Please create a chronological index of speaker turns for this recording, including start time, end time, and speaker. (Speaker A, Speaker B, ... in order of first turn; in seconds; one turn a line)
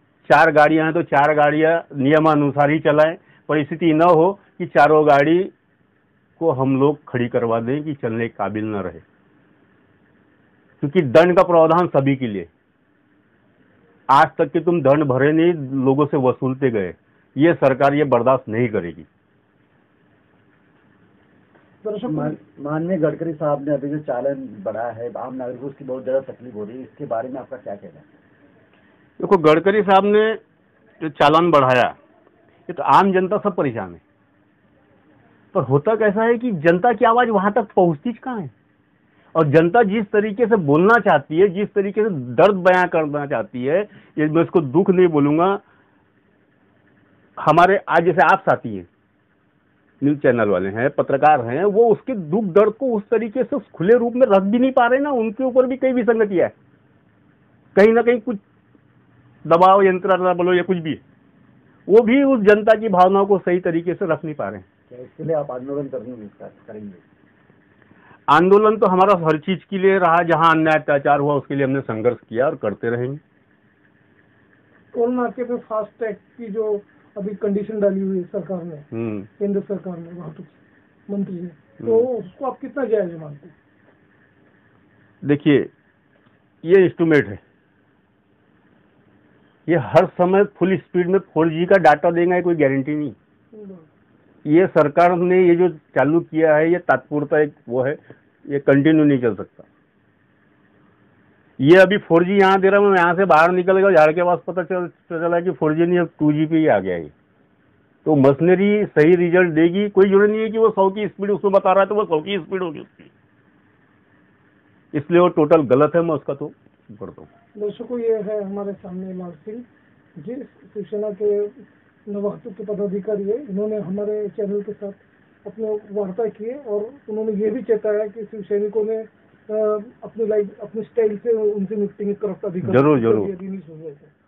Speaker A: 0.2-5.5
Speaker A: 6.4-9.0
Speaker A: 10.8-12.5
Speaker A: 14.1-19.1
Speaker B: 21.8-22.4
Speaker C: 22.1-28.1
Speaker A: 29.2-30.4
Speaker A: 31.0-31.9
Speaker A: 32.7-34.0
Speaker A: 35.5-38.5
Speaker A: 39.3-45.6
Speaker A: 47.4-48.9
Speaker A: 50.0-56.5
Speaker A: 57.7-58.4
Speaker A: 59.4-61.0
Speaker A: 61.9-64.6
Speaker C: 64.9-67.0
Speaker A: 68.3-73.2
Speaker B: 74.9-78.9
Speaker A: 78.9-79.3
Speaker B: 79.4-83.5
Speaker A: 85.2-85.7
Speaker A: 86.6-87.4
Speaker A: 89.7-93.1
Speaker B: 93.5-93.8
Speaker A: 94.4-99.7
Speaker A: 101.6-107.1
Speaker A: 108.0-113.1
Speaker A: 114.9-117.3
Speaker B: 117.5-134.1
Speaker A: 132.6-133.3